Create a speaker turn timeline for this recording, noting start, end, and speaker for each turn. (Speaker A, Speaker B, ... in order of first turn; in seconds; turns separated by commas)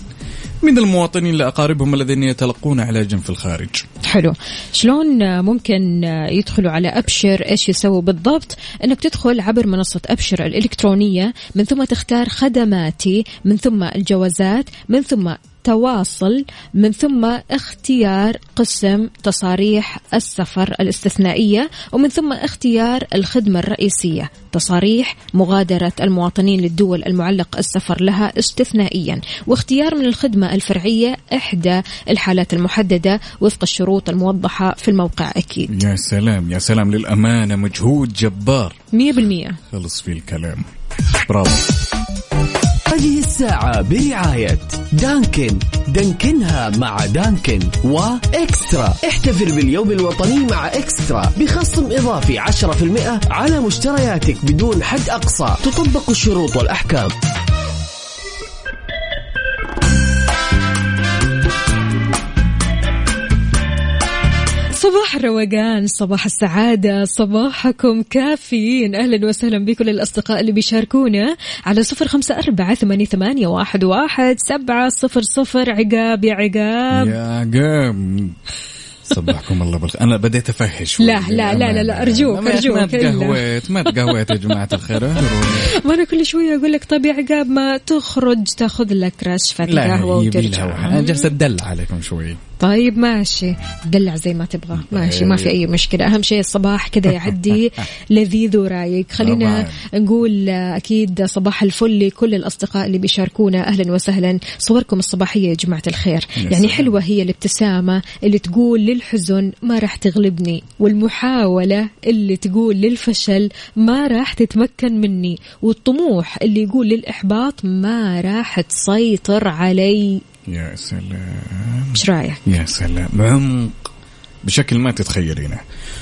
Speaker A: 0.6-3.9, Speaker B: 4.0-35.8, Speaker A: 35.7-38.8, Speaker B: 38.9-39.6, Speaker A: 39.7-40.7, Speaker A: 41.2-41.7, Speaker C: 42.9-57.1, Speaker B: 64.8-77.1, Speaker A: 76.9-78.4, Speaker A: 79.1-85.7, Speaker B: 81.0-83.4, Speaker B: 85.8-91.2, Speaker A: 89.7-92.4, Speaker B: 92.6-120.2, Speaker A: 94.7-95.5, Speaker A: 99.2-99.8, Speaker A: 106.4-106.9, Speaker A: 120.5-123.9, Speaker B: 122.0-122.4, Speaker A: 124.4-125.6